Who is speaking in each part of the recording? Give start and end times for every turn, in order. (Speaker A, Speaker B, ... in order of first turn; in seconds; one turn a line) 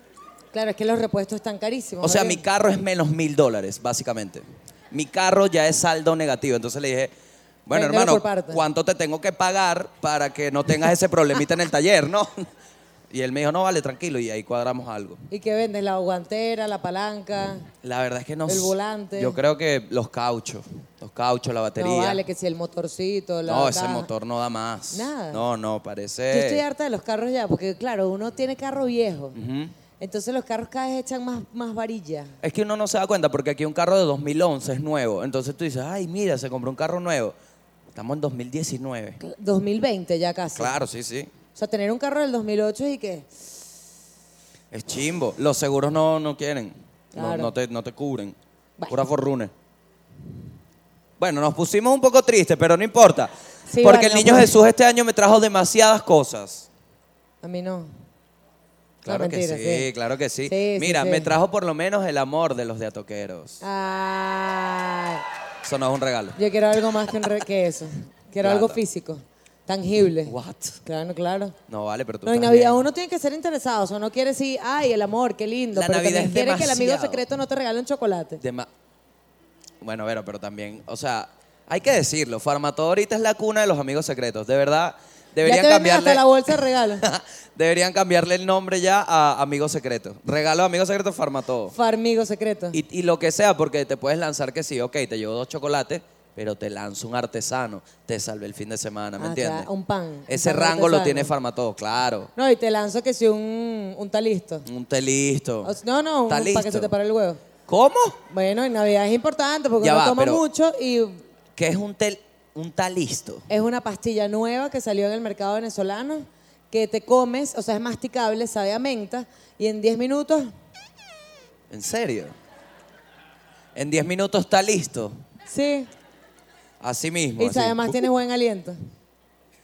Speaker A: 0.5-2.4
Speaker B: 2.0-7.1
Speaker B: 7.7-12.5
Speaker A: 7.7-8.6
Speaker B: 13.1-15.2
Speaker A: 15.3-17.7
Speaker B: 17.8-22.2
Speaker A: 18.5-19.4
Speaker A: 21.8-24.1
Speaker B: 23.5-26.6
Speaker A: 24.9-25.4
Speaker A: 26.3-29.4
Speaker B: 29.3-29.7
Speaker A: 30.0-32.3
Speaker B: 32.4-37.3
Speaker B: 37.9-39.2
Speaker A: 39.2-40.7
Speaker B: 40.5-41.3
Speaker A: 41.5-43.3
Speaker B: 44.7-48.4
Speaker A: 47.1-47.5
Speaker B: 48.9-49.5
Speaker B: 51.2-53.3
Speaker A: 53.7-54.5
Speaker B: 53.8-56.6
Speaker A: 57.4-57.9
Speaker B: 59.0-63.6
Speaker A: 59.0-59.9
Speaker A: 60.5-61.3
Speaker A: 63.6-65.2
Speaker B: 65.6-66.4
Speaker A: 66.3-71.5
Speaker B: 68.4-68.8
Speaker B: 70.3-70.8
Speaker B: 71.7-72.8
Speaker A: 72.2-78.4
Speaker B: 75.7-77.2
Speaker B: 78.4-78.7
Speaker B: 79.8-91.7
Speaker A: 85.4-87.0
Speaker A: 91.7-92.8
Speaker B: 92.7-99.7
Speaker A: 99.2-101.3
Speaker B: 100.3-102.3
Speaker A: 102.4-104.6
Speaker B: 104.7-105.7
Speaker A: 105.6-107.4
Speaker B: 106.3-106.9
Speaker B: 107.7-108.2
Speaker A: 108.3-111.2
Speaker B: 109.8-110.4
Speaker B: 111.5-113.5
Speaker A: 113.5-120.5
Speaker B: 121.7-122.3
Speaker B: 123.7-125.2
Speaker A: 125.5-125.9
Speaker B: 126.8-128.1
Speaker A: 127.4-128.8